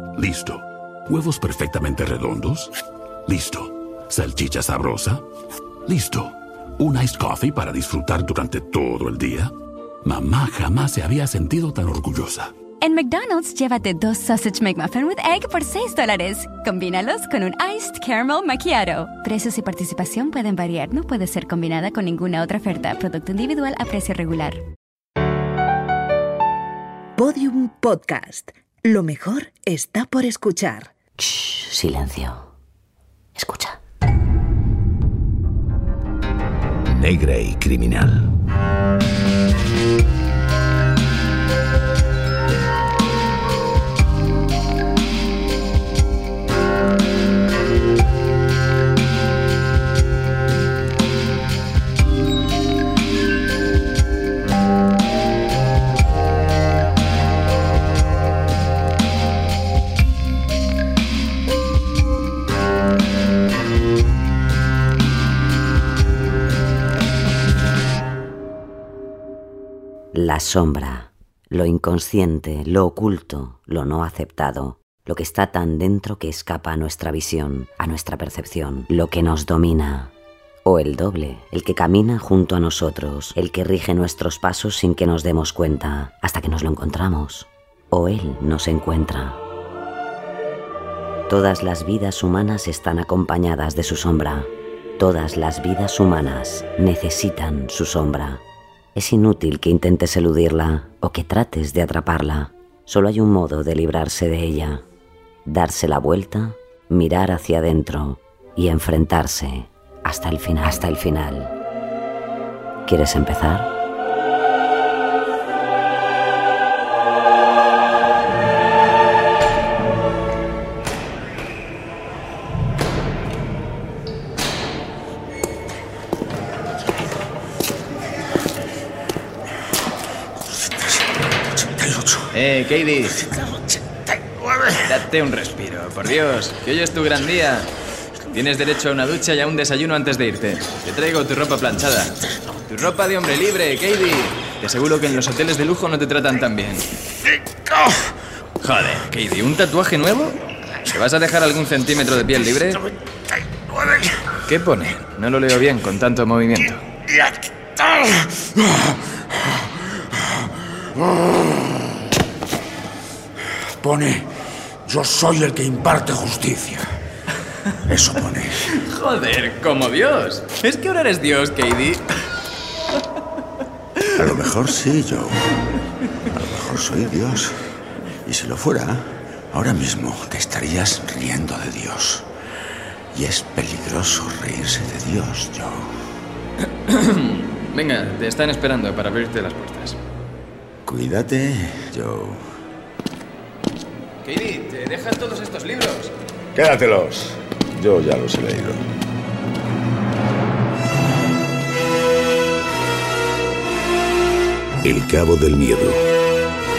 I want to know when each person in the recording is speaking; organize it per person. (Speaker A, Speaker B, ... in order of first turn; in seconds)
Speaker A: 0.2-2.7, 3.2-5.2, 5.8-9.5, 10.0-12.5
Speaker B: 12.8-24.6
Speaker C: 27.1-30.9
Speaker D: 31.2-32.5, 33.3-33.8, 70.1-80.1, 80.6-89.4, 91.3-98.4, 98.9-104.8, 105.5-111.5, 112.9-113.7
Speaker E: 36.9-38.2, 204.8-206.0
Speaker F: 131.5-132.3, 133.3-134.8, 157.1-159.6, 160.9-161.8, 163.8-164.3, 164.8-166.8, 167.8-168.7, 174.1-175.5, 176.3-177.6, 178.2-182.3, 183.1-185.9, 190.8-192.4, 196.5-198.8
Speaker G: 132.3-133.2, 134.9-137.7, 138.3-146.8, 148.6-152.8, 154.5-156.8, 168.8-172.1, 186.9-190.0, 194.2-196.1